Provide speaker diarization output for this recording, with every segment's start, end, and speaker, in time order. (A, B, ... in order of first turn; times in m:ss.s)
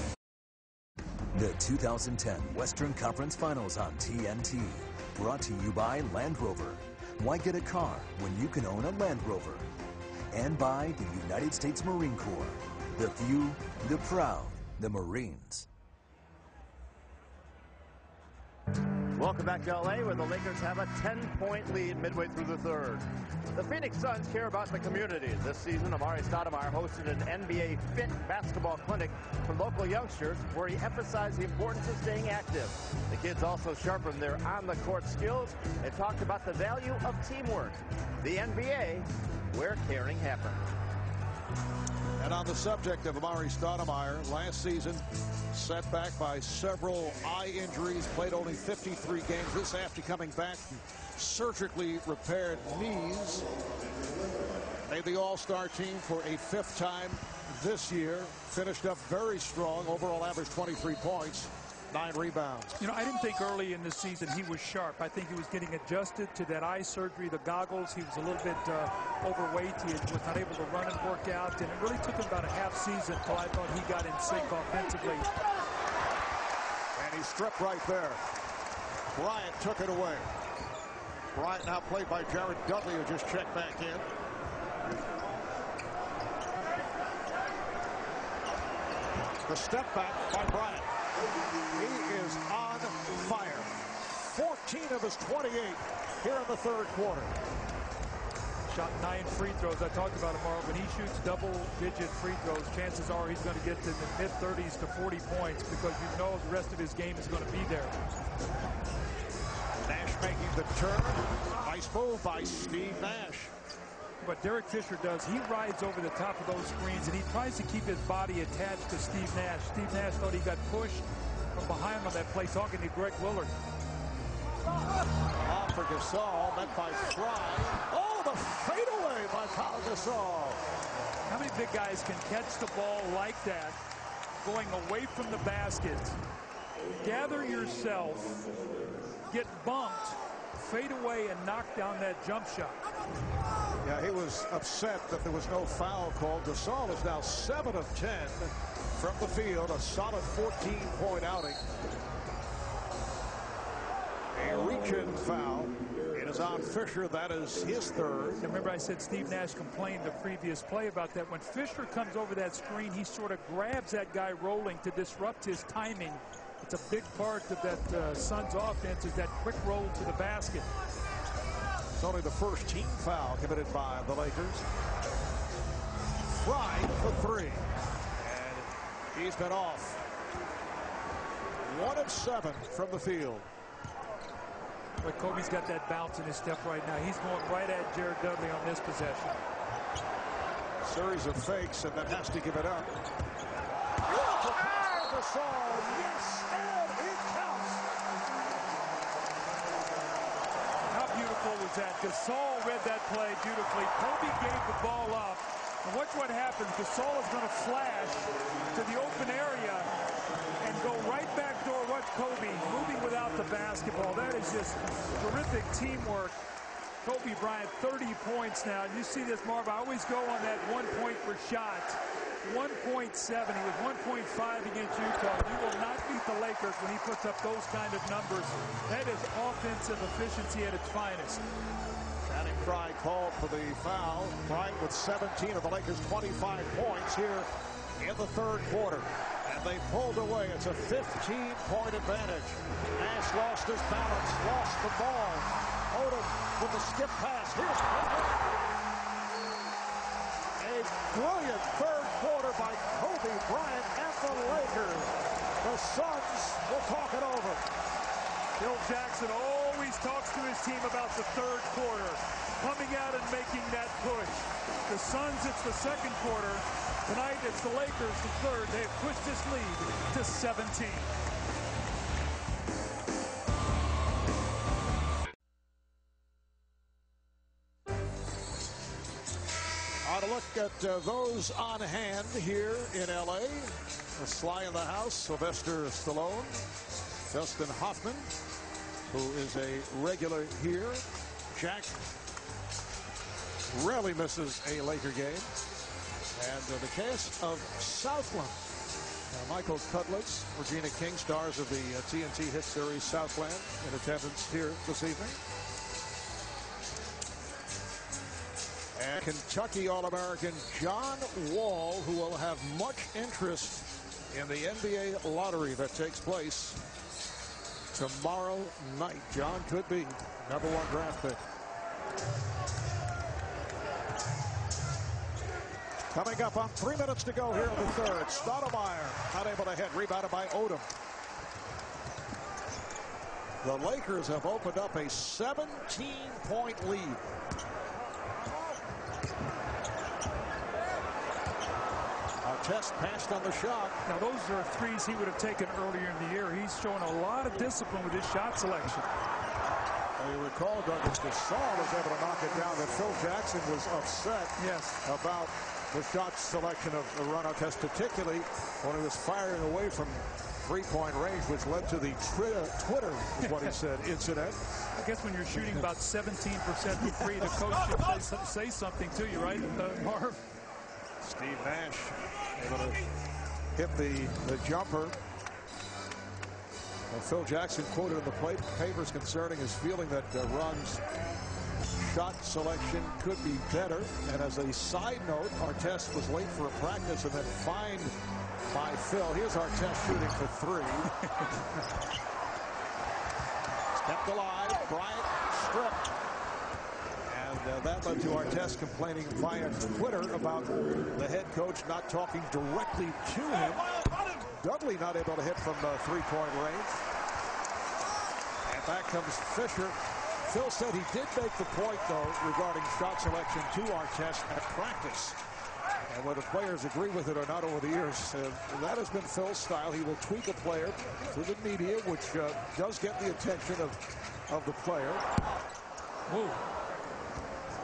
0:01.3-0:09.7 A
0:10.3-0:15.7 A
0:19.1-0:40.6 B
0:42.2-0:53.4 C
0:54.8-1:02.8 C
1:02.8-1:15.3 D
1:17.0-1:18.2 C
1:19.1-1:20.3 C
1:21.3-1:24.1 C
1:29.5-1:30.9 C
1:31.7-1:37.3 C
1:38.7-1:47.9 D
1:49.8-1:53.5 C
1:54.2-2:03.5 D
2:05.4-2:10.6 C
2:11.3-2:13.8 D
2:14.4-2:16.2 D
2:17.0-2:18.3 D
2:19.2-2:22.8 D
2:23.8-2:31.6 C
2:34.3-2:38.4 C
2:38.4-2:50.7 D
2:52.0-2:54.6 C
2:56.4-2:57.7 C
2:58.2-3:00.0 C
3:01.6-3:03.5 C
3:05.0-3:09.4 D
3:10.8-3:12.9 C
3:14.0-3:17.8 C
3:20.9-3:29.9 D
3:30.6-3:36.4 D
3:37.0-3:51.4 D
3:52.2-3:57.5 C
3:58.0-4:08.4 C
4:10.6-4:17.6 C
4:18.6-4:31.1 D
4:40.0-4:46.6 C
4:47.3-4:48.3 C
4:49.1-4:52.0 C
4:53.7-4:55.5 C
4:56.4-4:58.6 C
4:59.3-5:05.4 C
5:09.0-5:16.8 C
5:17.9-5:21.4 C
5:26.1-5:30.9 C
5:33.6-5:37.2 C
5:42.4-5:44.0 C
5:44.0-5:49.1 D
5:50.2-6:04.6 C
5:54.6-5:55.0 D
6:03.4-6:03.8 D
6:05.0-6:10.4 D
6:11.2-6:13.1 C
6:13.8-6:15.2 C
6:17.1-6:21.0 C
6:22.0-6:28.1 C
6:28.7-6:31.1 C
6:33.9-6:36.1 C
6:37.3-6:47.0 C
6:48.6-6:55.4 C
6:56.1-7:05.2 C
7:06.3-7:06.6 D